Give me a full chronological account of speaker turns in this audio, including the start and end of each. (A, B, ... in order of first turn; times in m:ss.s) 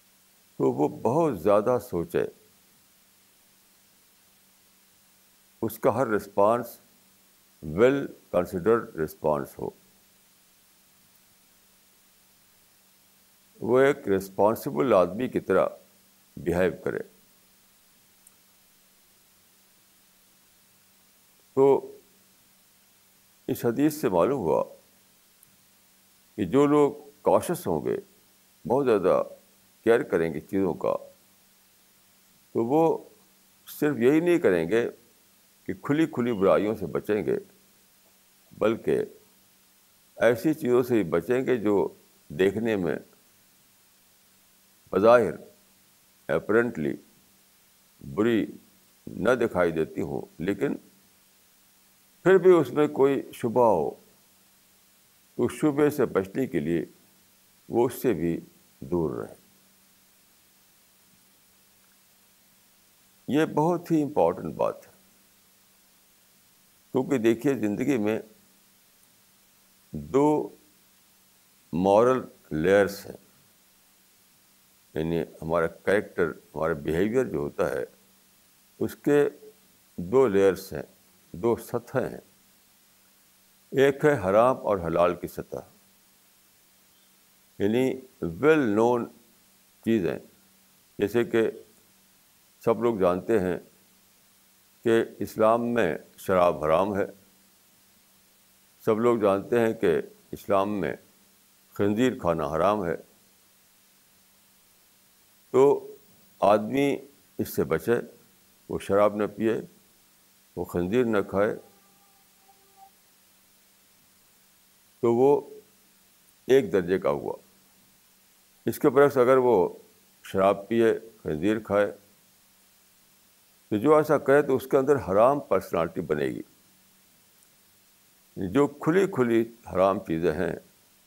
0:00.6-0:02.3 A
0:05.6-0:06.8 A
0:07.6-0:09.8 A
0:13.6-0:15.7 A
0:16.4-0:17.0 A
0:21.5-0:22.0 A
0:23.5-0:24.7 A
0:26.4-0:28.0 A
0:28.6-0:29.3 A
0:29.8-0:31.0 A
0:32.5-0:33.1 A
0:33.6-0:34.9 A
0:35.7-0:37.4 A
0:38.6-0:39.1 A
0:40.2-0:43.0 A
0:44.9-0:45.4 A
0:46.3-0:47.0 A
0:48.0-0:48.6 A
0:49.1-0:50.8 A
0:52.2-0:54.0 A
0:55.4-0:56.9 A
0:57.7-0:59.4 A
1:03.3-1:04.9 A
1:06.9-1:08.2 A
1:09.9-1:10.6 A
1:11.7-1:13.2 A
1:14.9-1:17.9 A
1:18.8-1:19.3 A
1:20.0-1:22.2 A
1:23.8-1:25.7 A
1:27.6-1:29.1 A
1:29.8-1:30.2 A
1:31.0-1:31.6 A
1:32.6-1:33.6 A
1:34.8-1:37.1 A
1:38.8-1:41.0 A
1:41.7-1:43.0 A
1:45.5-1:48.0 A
1:48.7-1:49.7 A
1:50.6-1:51.6 A
1:55.0-1:55.6 A
1:56.5-1:57.4 A
1:58.6-2:01.9 A
2:03.7-2:06.4 A
2:08.4-2:10.6 A